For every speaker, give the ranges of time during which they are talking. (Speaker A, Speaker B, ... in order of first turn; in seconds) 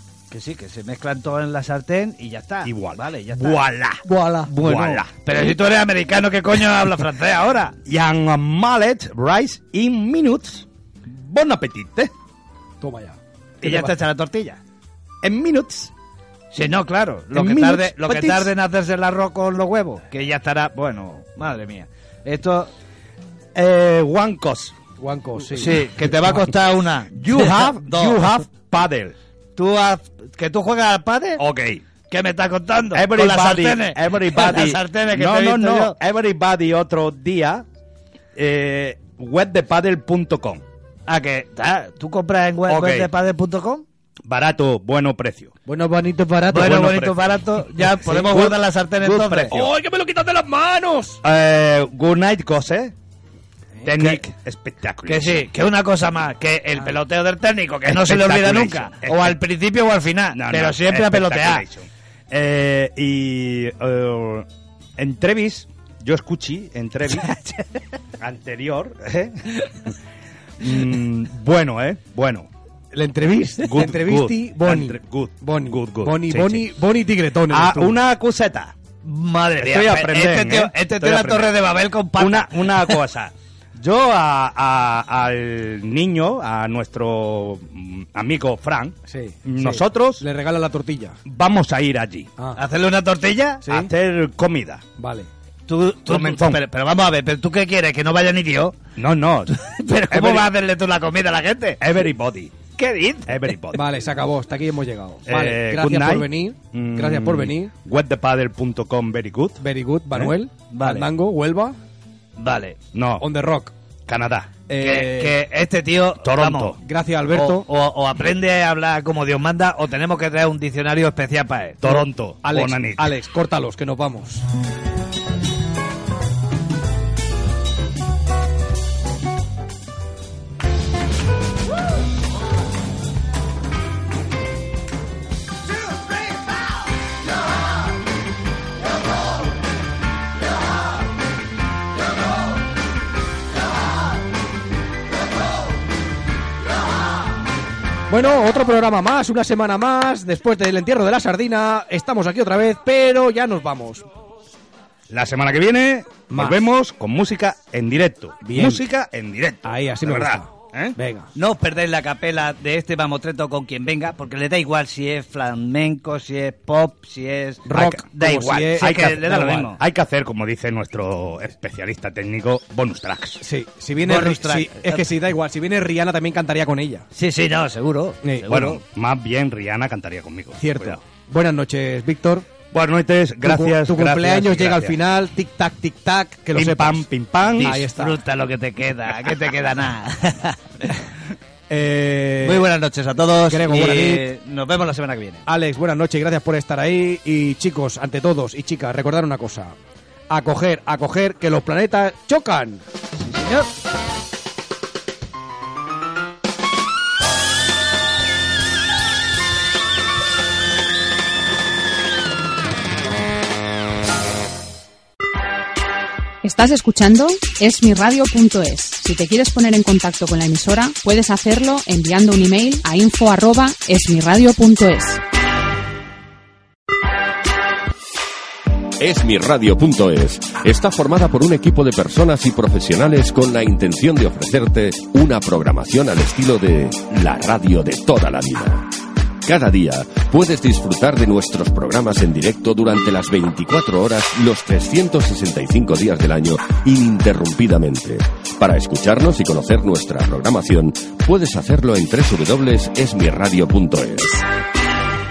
Speaker A: 0.3-3.6, 4.5-7.7, 13.6-14.6, 16.5-22.7, 25.5-28.2, 29.6-31.4, 32.1-36.0, 41.1-43.8, 46.5-49.6, 55.0-61.6, 67.2-67.6, 79.0-83.0, 92.5-93.6, 95.7-98.8, 99.6-101.8, 102.8-103.5, 110.7-111.1, 112.4-112.8, 114.8-116.8, 117.3-121.8, 161.3-169.8, 174.0-175.1, 177.1-178.8, 187.6-190.9, 192.4-195.4, 203.2-203.7
Speaker B: 2.6-5.1, 7.8-12.1, 13.6-13.9, 15.2-15.9, 17.3-18.5, 23.5-24.8, 27.1-29.1, 31.4-31.8, 32.9-37.6, 38.3-40.6, 42.7-43.1, 44.3-45.5, 46.5-49.7, 51.2-52.9, 53.8-55.5, 57.9-59.4, 60.3-67.3, 68.2-69.9, 70.6-72.5, 73.6-76.8, 77.5-78.7, 79.6-81.6, 82.1-90.2, 91.2-92.3, 93.7-94.8, 96.0-96.6, 99.0-100.5, 101.8-102.5, 103.3-103.8, 105.3-110.3, 112.9-113.3, 114.1-114.6, 116.2-116.8, 121.8-123.1, 155.1-161.0, 167.7-168.0, 168.7-173.4, 178.5-181.0, 182.7-185.0, 186.5-187.9
Speaker C: 4.0-4.5, 12.8-13.2, 25.0-25.8, 45.6-46.9, 49.1-51.2, 72.9-78.0, 89.1-91.2, 93.6-93.9, 95.0-95.3, 103.7-107.7, 109.6-111.8, 113.2-113.7, 114.7-115.3, 116.8-117.7, 121.8-124.4, 148.1-154.1, 156.3-156.7, 158.4-158.8, 159.6-161.3, 167.7-169.2, 173.4-177.1, 180.6-182.4, 183.4-187.1, 187.6-188.2, 191.7-192.7, 193.5-194.3, 195.4-199.7, 200.3-202.8
Speaker D: 216.4-225.2
Speaker E: 229.0-238.8, 239.4-254.4